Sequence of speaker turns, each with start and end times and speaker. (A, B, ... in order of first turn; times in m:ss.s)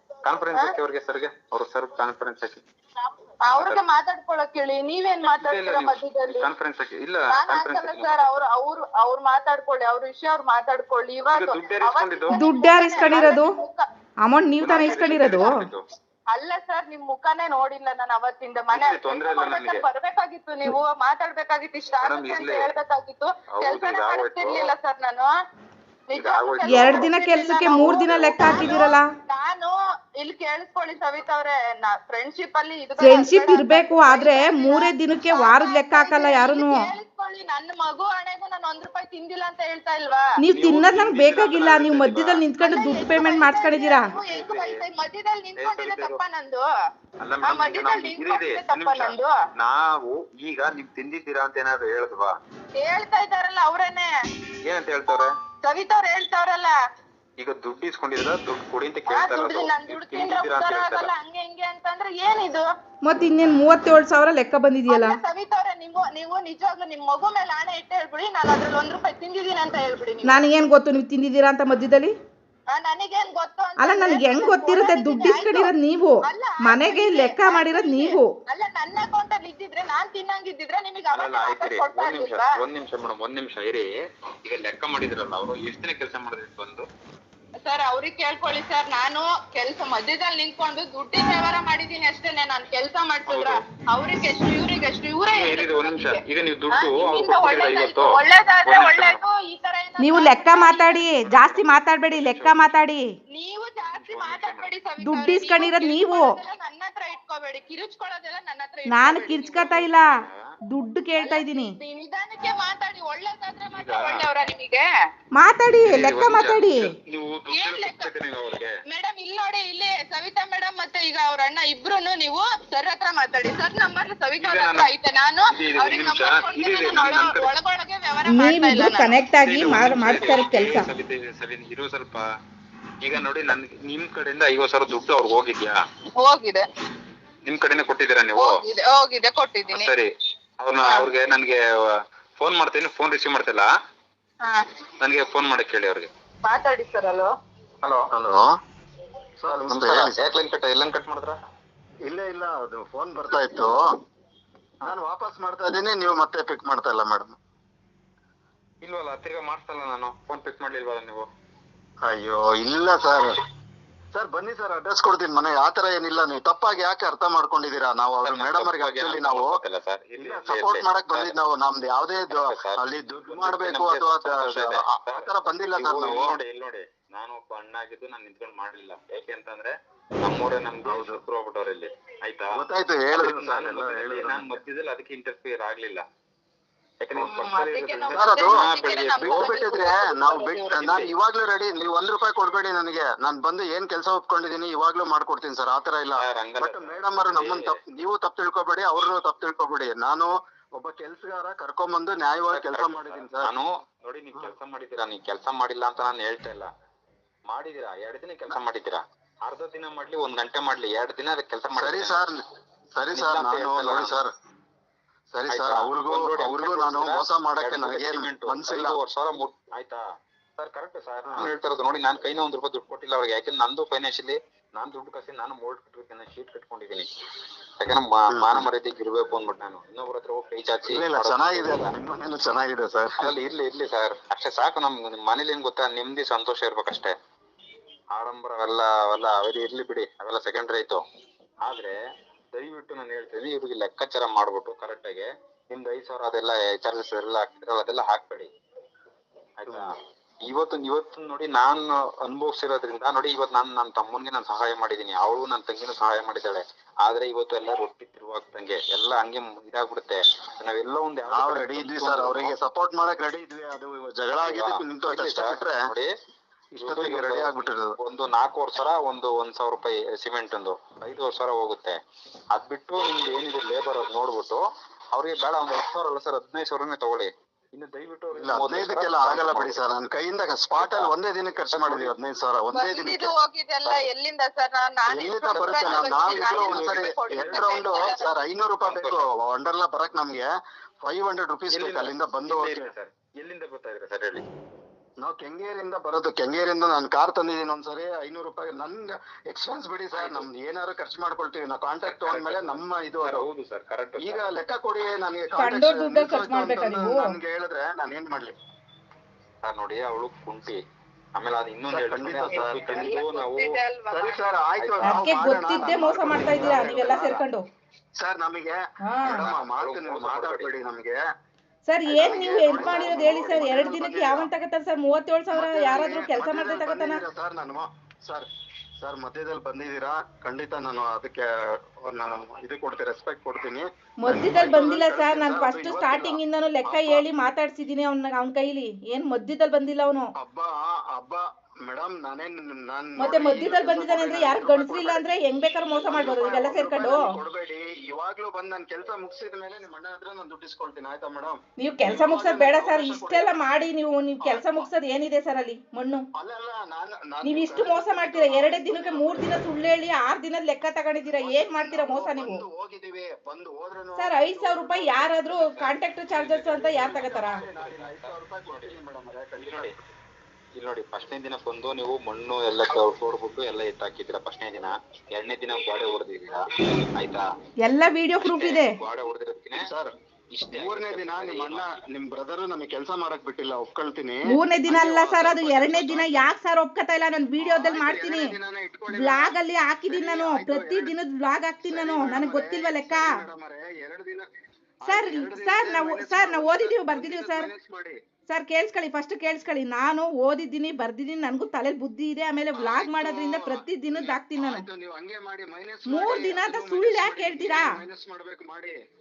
0:00.2-0:02.6 A
0:03.4-0:06.5 B
0:03.5-0:03.8 A
0:05.2-0:08.4 A
0:07.3-0:13.8 B
0:11.3-0:12.4 A
0:12.3-0:13.5 C
0:13.0-0:13.3 A
0:14.2-0:15.6 C
0:14.6-0:15.8 A
0:16.3-0:25.3 B
0:18.7-0:19.9 A
0:22.0-0:22.7 A
0:23.5-0:24.7 A
0:26.1-0:40.2 B
0:26.1-0:27.1 A
0:26.6-0:29.1 C
0:27.9-0:28.7 A
0:33.0-0:36.9 C
0:40.4-0:44.1 C
0:40.5-0:42.5 A
0:42.6-0:46.6 B
0:44.2-0:44.8 A
0:45.6-0:46.2 A
0:47.2-0:52.3 A
0:47.4-0:49.3 B
0:52.8-0:54.1 B
0:54.6-0:55.3 A
0:55.6-0:56.7 B
0:57.4-1:01.1 A
0:59.1-1:02.6 B
1:03.0-1:05.2 C
1:04.9-1:10.5 B
1:10.2-1:12.1 C
1:12.7-1:15.7 B
1:13.8-1:18.3 C
1:16.2-1:22.5 B
1:21.1-1:23.9 A
1:24.4-1:26.9 A
1:27.6-1:41.1 B
1:33.2-1:33.6 A
1:35.3-1:39.2 A
1:40.0-1:43.0 C
1:41.2-1:42.6 A
1:43.3-1:49.9 B
1:43.9-1:44.7 A
1:45.0-1:46.4 C
1:48.9-1:50.1 C
1:50.1-1:50.4 A
1:50.7-1:51.8 C
1:51.2-1:54.9 B
1:53.7-1:54.3 A
1:55.4-1:56.9 C
1:55.8-1:58.8 A
1:57.5-1:58.1 B
1:58.9-2:09.1 B
2:04.4-2:04.9 A
2:05.5-2:07.5 A
2:08.3-2:10.9 C
2:09.4-2:12.2 A
2:13.0-2:15.8 A
2:16.2-2:16.6 B
2:17.4-2:18.6 A
2:18.4-2:19.9 B
2:19.7-2:20.1 A
2:20.6-2:21.6 A
2:20.8-2:21.1 B
2:22.4-2:23.6 A
2:25.0-2:26.1 A
2:26.4-2:27.3 B
2:27.8-2:28.1 A
2:28.1-2:28.5 D
2:29.4-2:30.3 D
2:29.7-2:31.4 A
2:32.0-2:33.8 D
2:34.8-2:37.4 D
2:38.8-2:41.3 A
2:42.0-2:43.4 D
2:44.1-2:49.5 D
2:48.2-2:51.3 A
2:50.2-2:56.4 D
2:52.3-3:02.6 A
3:00.9-3:01.2 D
3:02.5-3:04.5 D
3:03.1-3:06.1 A
3:07.0-3:09.6 A
3:07.2-3:10.9 B
3:08.1-3:23.5 D
3:10.7-3:11.1 A
3:16.2-3:17.8 A
3:22.5-3:26.7 A
3:27.5-3:32.2 A
3:31.8-3:32.4 D
3:33.0-3:34.3 D
3:33.1-3:34.2 A
3:35.3-3:39.0 D
3:35.5-3:40.0 A
3:40.6-3:47.1 A
3:47.8-3:51.9 A
3:48.3-3:48.7 D
3:50.9-3:53.3 D
3:53.2-3:57.1 A
3:58.1-4:01.0 A
4:01.6-4:02.0 A
4:02.5-4:08.5 A
4:09.6-4:22.5 A
4:09.7-4:09.9 D
4:21.3-4:25.8 D
4:24.4-4:26.1 A
4:26.8-4:27.9 D
4:26.8-4:32.0 A
4:32.5-4:39.8 A
4:38.4-4:43.3 D
4:40.8-4:41.1 A
4:41.7-4:42.1 A
4:42.7-4:48.2 B
4:45.1-4:50.5 D
4:45.8-4:48.1 A
4:48.9-4:49.2 A
4:51.0-4:52.9 D
4:51.7-4:54.4 A
4:55.2-5:03.4 D
5:00.2-5:00.5 A
5:02.0-5:04.5 A
5:04.2-5:08.5 D
5:05.6-5:07.4 C
5:09.6-5:10.8 A
5:11.4-5:13.8 A
5:11.9-5:13.1 D
5:12.4-5:14.5 B
5:14.1-5:17.4 D
5:14.8-5:15.1 A
5:15.1-5:17.6 C
5:16.4-5:16.8 A
5:18.2-5:21.2 D
5:19.0-5:19.5 C
5:19.3-5:20.7 A
5:21.9-5:27.2 C
5:22.1-5:23.9 A
5:22.1-5:24.5 D
5:25.5-5:28.5 D
5:29.0-5:37.2 D
5:34.2-5:40.3 C
5:40.4-5:45.3 D
5:43.2-5:47.3 C
5:46.0-5:53.6 D
5:51.8-5:56.2 C
5:54.4-5:54.9 D
5:56.4-5:59.6 D
5:57.4-6:02.6 C
6:01.4-6:05.5 D
6:04.2-6:07.6 C
6:05.5-6:06.8 A
6:06.7-6:10.0 D
6:07.5-6:09.0 A
6:09.6-6:10.0 A
6:10.8-6:17.4 A
6:17.8-6:18.9 C
6:18.4-6:19.9 A
6:19.8-6:20.1 D
6:20.5-6:21.9 A
6:20.7-6:26.5 D
6:24.5-6:28.5 C
6:27.6-6:29.6 D
6:29.1-6:33.4 C
6:30.1-6:31.1 D
6:31.8-6:34.5 D
6:35.0-6:38.2 D
6:35.1-6:37.7 C
6:38.5-6:44.9 C
6:42.8-6:49.0 D
6:46.1-6:47.9 C